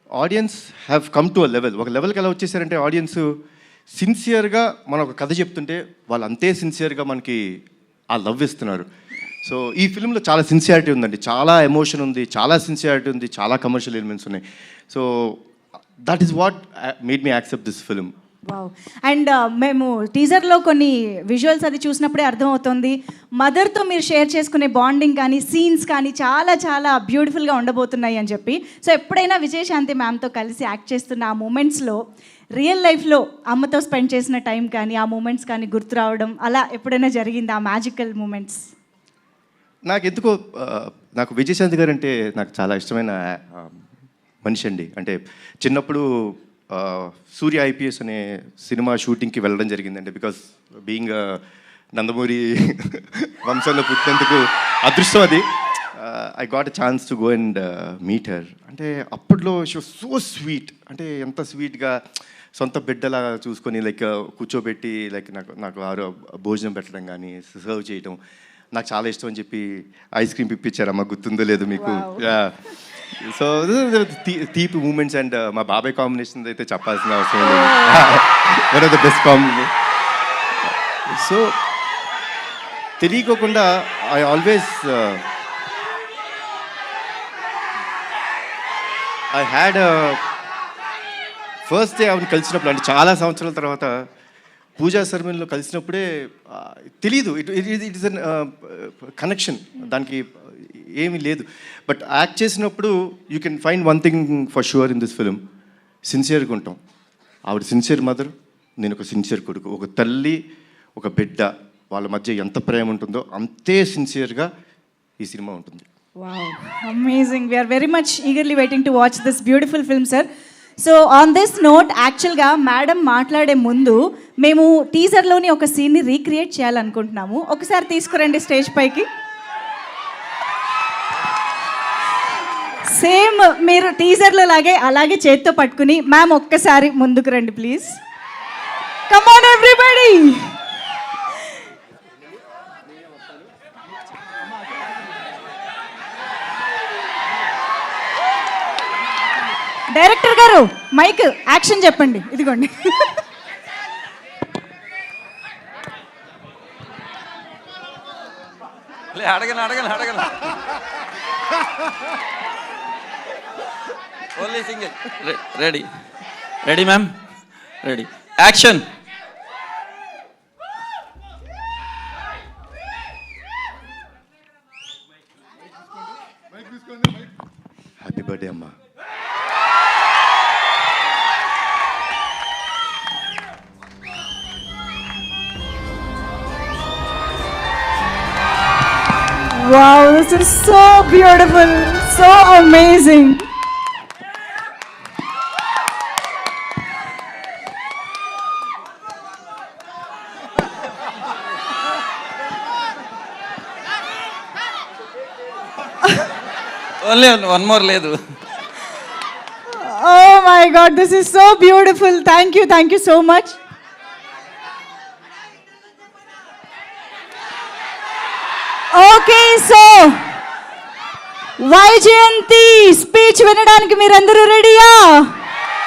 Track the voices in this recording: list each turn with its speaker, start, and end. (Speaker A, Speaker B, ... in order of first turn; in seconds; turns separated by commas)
Speaker A: 0.2-3.3, Speaker A: 3.9-7.4, Speaker A: 8.1-8.9, Speaker A: 9.4-15.4, Speaker A: 16.1-18.1, Speaker B: 18.5-32.0, Speaker B: 32.6-38.7, Speaker A: 39.9-43.9, Speaker A: 44.4-51.4, Speaker A: 52.0-62.0, Speaker A: 62.6-68.2, Speaker A: 68.7-72.6, Speaker B: 71.8-72.2, Speaker A: 73.1-79.7, Speaker B: 77.4-78.1, Speaker A: 81.1-81.6, Speaker A: 83.0-85.2, Speaker A: 89.3-90.2, Speaker A: 91.7-94.1, Speaker A: 94.8-105.4, Speaker A: 106.1-106.8, Speaker A: 107.5-110.4, Speaker A: 111.0-114.5, Speaker A: 115.2-115.9, Speaker B: 116.2-120.3, Speaker B: 120.8-129.1, Speaker B: 132.9-137.9, Speaker B: 139.1-140.6, Speaker B: 149.9-153.2, Speaker C: 159.1-160.6, Speaker C: 164.4-165.9, Speaker C: 166.6-167.2, Speaker C: 167.8-168.9, Speaker A: 178.0-178.8, Speaker B: 189.5-193.4, Speaker C: 207.0-208.2, Speaker B: 209.7-213.6, Speaker B: 218.9-220.3, Speaker B: 221.6-225.4